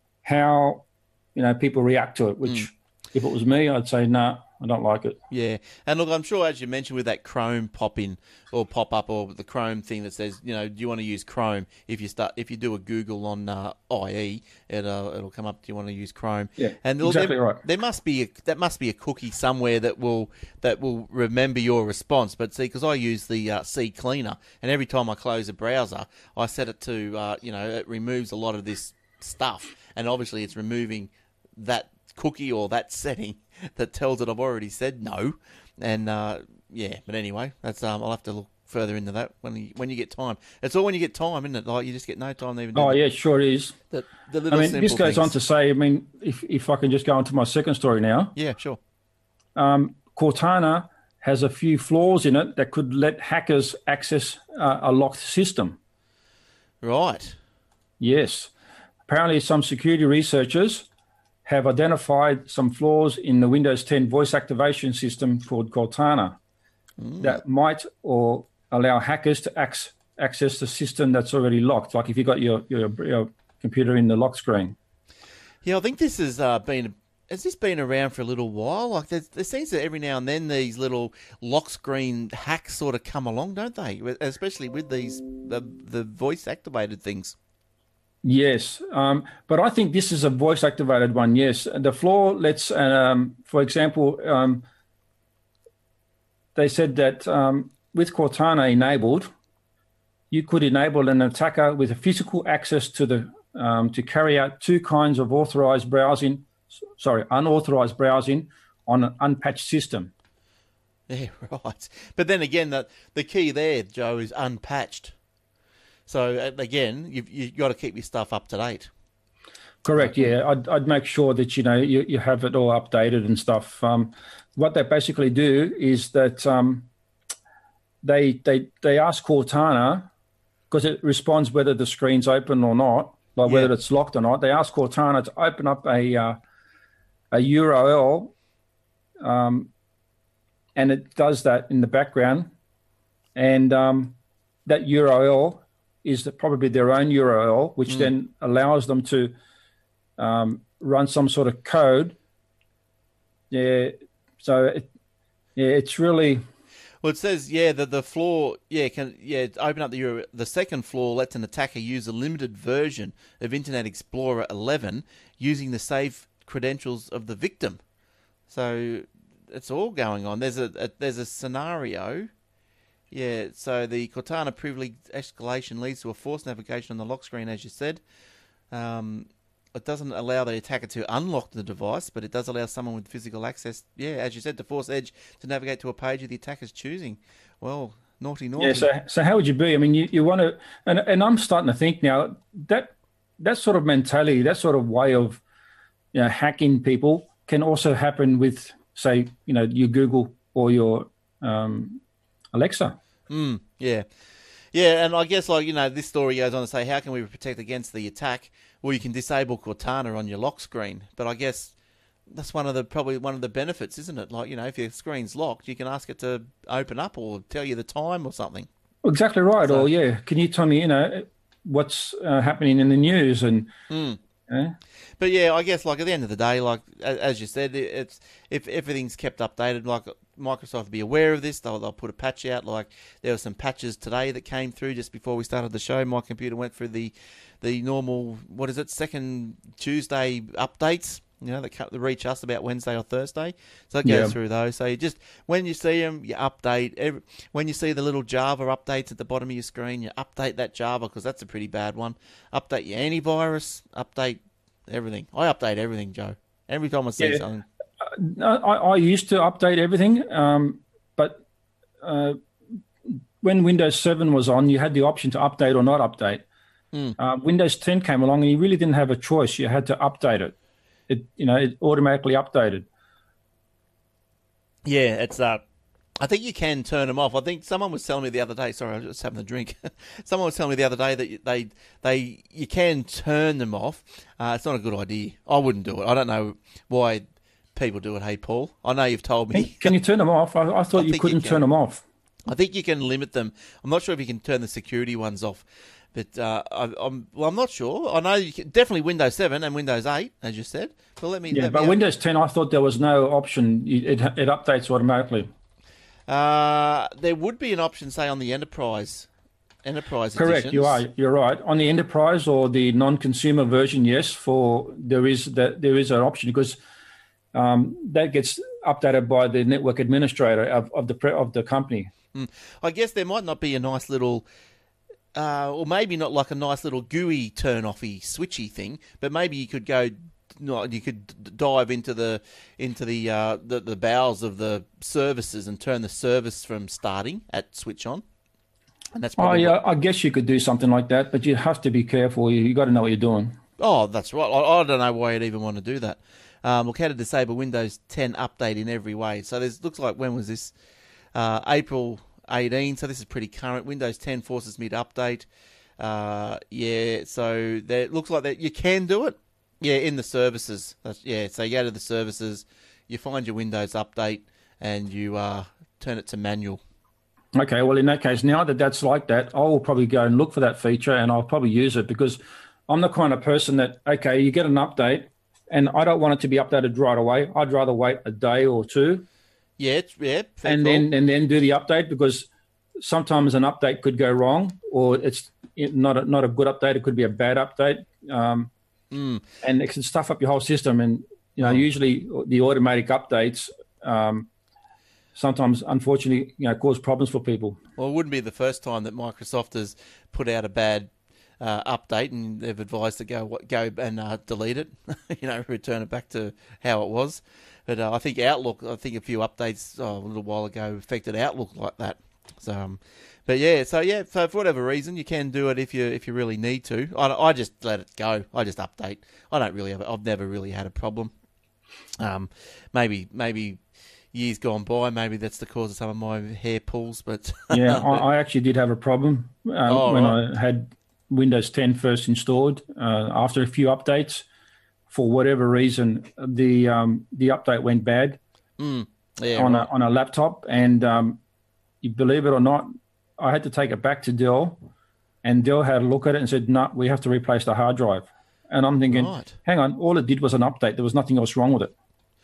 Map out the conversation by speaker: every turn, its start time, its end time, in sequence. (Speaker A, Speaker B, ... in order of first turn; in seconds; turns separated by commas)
Speaker A: 0.2-5.2, Speaker B: 5.3-43.0, Speaker A: 16.6-17.6, Speaker A: 42.7-43.8, Speaker B: 43.9-45.3, Speaker A: 44.5-48.3, Speaker B: 48.4-48.8, Speaker A: 49.5-55.8, Speaker B: 56.8-57.4, Speaker A: 58.0-58.5, Speaker A: 59.1-60.9, Speaker A: 61.4-66.4, Speaker B: 67.0-67.4, Speaker A: 67.2-74.8, Speaker B: 75.6-87.4, Speaker A: 88.2-94.6, Speaker A: 96.5-99.3, Speaker A: 100.3-110.1, Speaker B: 111.1-115.1, Speaker B: 116.1-118.9, Speaker A: 119.8-126.9, Speaker B: 120.0-120.3, Speaker A: 128.0-130.1, Speaker A: 130.7-136.4, Speaker B: 133.4-133.7, Speaker A: 137.3-138.3, Speaker A: 139.2-139.7, Speaker A: 140.8-142.5, Speaker A: 143.3-149.3, Speaker A: 150.2-152.2, Speaker A: 153.5-154.9, Speaker A: 155.6-156.4, Speaker B: 157.0-167.8, Speaker B: 168.5-172.3, Speaker B: 173.1-178.0, Speaker B: 178.7-188.9, Speaker A: 188.6-195.4, Speaker A: 196.1-202.0, Speaker A: 202.5-203.0, Speaker B: 203.3-204.1, Speaker B: 204.7-211.7, Speaker B: 212.3-218.7, Speaker A: 219.0-223.7, Speaker B: 223.9-224.2, Speaker A: 224.5-224.7, Speaker B: 225.2-257.6, Speaker A: 244.0-244.3, Speaker A: 258.0-261.4, Speaker A: 262.0-262.4, Speaker A: 263.1-266.4, Speaker A: 267.2-270.5, Speaker A: 271.1-272.9, Speaker B: 274.8-275.6, Speaker B: 276.2-287.2, Speaker B: 287.7-289.9, Speaker A: 289.5-292.0, Speaker B: 290.9-291.6, Speaker B: 292.5-302.0, Speaker A: 301.5-305.5, Speaker B: 306.3-309.3, Speaker B: 309.8-311.0, Speaker A: 310.4-316.8, Speaker A: 317.5-322.1, Speaker B: 322.3-324.4, Speaker B: 325.3-338.2, Speaker B: 339.1-339.8, Speaker A: 339.4-343.6, Speaker B: 343.8-350.7, Speaker B: 351.3-355.5, Speaker B: 356.0-366.8, Speaker A: 367.5-379.2, Speaker B: 379.8-381.1, Speaker A: 380.6-388.7, Speaker B: 389.1-389.4, Speaker A: 389.6-394.5, Speaker A: 395.4-397.8, Speaker B: 398.0-421.3, Speaker B: 422.2-423.8, Speaker B: 424.3-428.2, Speaker A: 427.7-434.4, Speaker B: 429.9-430.4, Speaker A: 435.1-438.4, Speaker B: 438.8-439.9, Speaker A: 439.5-441.4, Speaker A: 442.0-444.8, Speaker A: 445.4-451.9, Speaker B: 449.1-449.6